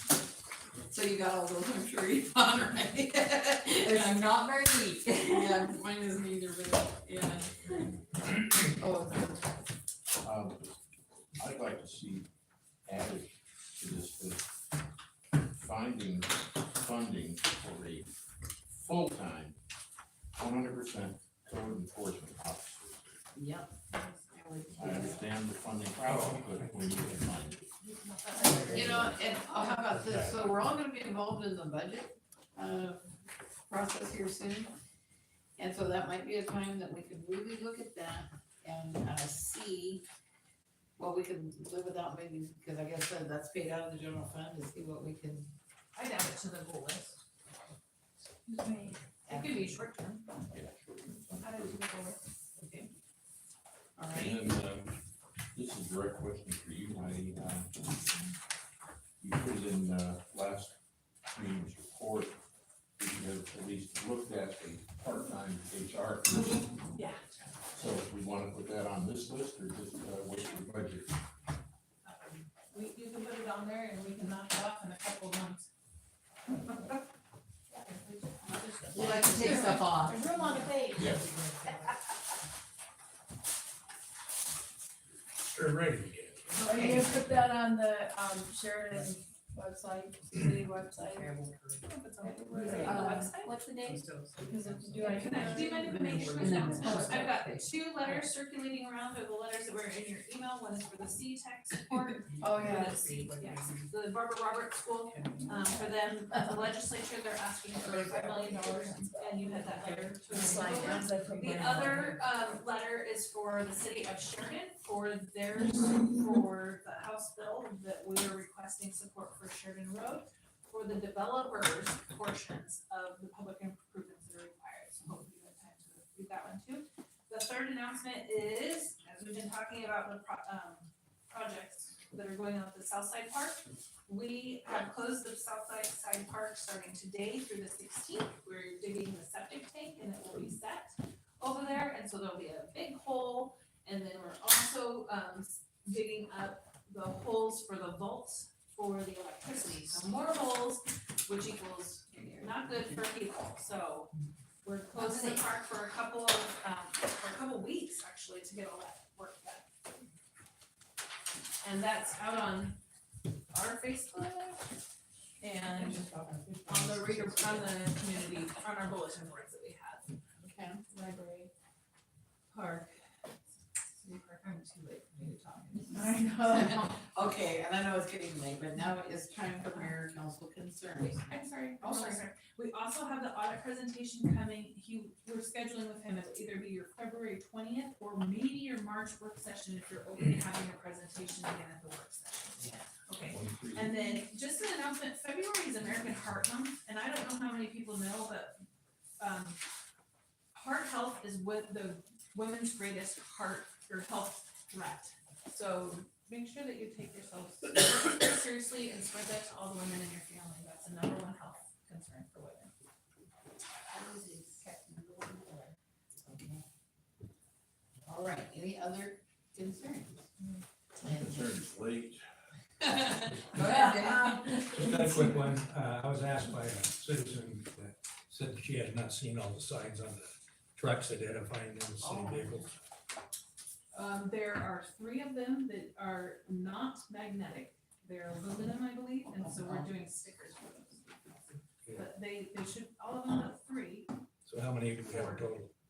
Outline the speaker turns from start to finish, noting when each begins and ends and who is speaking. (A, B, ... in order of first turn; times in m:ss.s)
0:00.9-0:04.3 A
0:03.8-0:05.7 B
0:05.2-0:07.9 A
0:08.7-0:09.5 A
0:10.2-0:10.8 C
0:11.4-0:12.3 C
0:12.8-0:14.4 C
0:15.5-0:18.1 C
0:18.7-0:19.6 C
0:20.3-0:23.2 C
0:23.3-0:25.3 A
0:24.8-0:27.7 C
0:26.0-0:27.2 D
0:27.8-0:30.0 E
0:28.5-0:29.1 D
0:28.7-0:33.1 A
0:30.0-0:30.4 D
0:33.7-0:34.7 A
0:35.6-0:40.0 A
0:41.0-0:45.5 A
0:45.9-0:47.2 E
0:48.5-0:48.9 F
0:49.2-0:49.8 A
0:49.3-0:50.2 E
0:50.5-0:51.8 C
0:51.4-0:52.2 E
0:52.6-0:52.9 A
0:54.0-0:54.5 A
0:54.1-0:54.9 C
0:55.5-0:58.0 C
0:59.2-1:00.8 C
1:01.3-1:02.4 C
1:03.0-1:06.9 C
1:06.9-1:07.2 E
1:07.7-1:11.1 C
1:12.0-1:15.7 E
1:16.5-1:16.9 E
1:17.7-1:20.8 E
1:18.9-1:20.2 A
1:18.9-1:20.2 B
1:19.3-1:21.7 F
1:20.9-1:21.2 C
1:25.4-1:26.7 D
1:26.6-1:27.0 A
1:26.6-1:31.4 F
1:31.8-1:33.6 E
1:32.2-1:37.3 F
1:32.6-1:33.3 A
1:33.8-1:37.2 B
1:35.0-2:34.1 E
1:36.0-1:37.5 A
1:42.4-1:42.7 B
1:42.4-1:43.0 F
1:43.5-1:43.8 B
1:47.8-1:52.1 F
1:50.6-1:51.4 B
1:50.7-1:51.1 A
2:32.1-2:32.6 A
2:34.6-2:39.7 E
2:35.0-2:35.4 A
2:41.6-2:42.8 E
2:43.5-2:44.6 E
2:45.4-2:46.0 E
2:45.7-2:47.7 A
2:46.6-2:50.1 E
2:50.4-2:50.8 A
2:50.9-2:51.5 E
2:52.5-2:53.0 E
2:54.0-2:56.8 E
2:55.9-3:02.2 A
3:01.0-3:18.6 E
3:12.6-3:12.8 A
3:13.2-3:14.0 C
3:19.2-3:19.6 E
3:20.5-3:32.7 E
3:33.9-3:34.6 A
3:34.6-3:35.7 E
3:36.2-3:36.6 A
3:38.0-3:40.2 A
3:41.0-3:42.2 C
3:41.0-3:41.5 A
3:42.8-3:44.8 A
3:43.6-3:44.7 E
3:44.7-3:52.7 D
3:52.0-3:52.6 A
3:53.9-4:04.1 E
3:59.3-3:59.9 A
4:04.4-4:05.7 D
4:05.0-4:05.5 E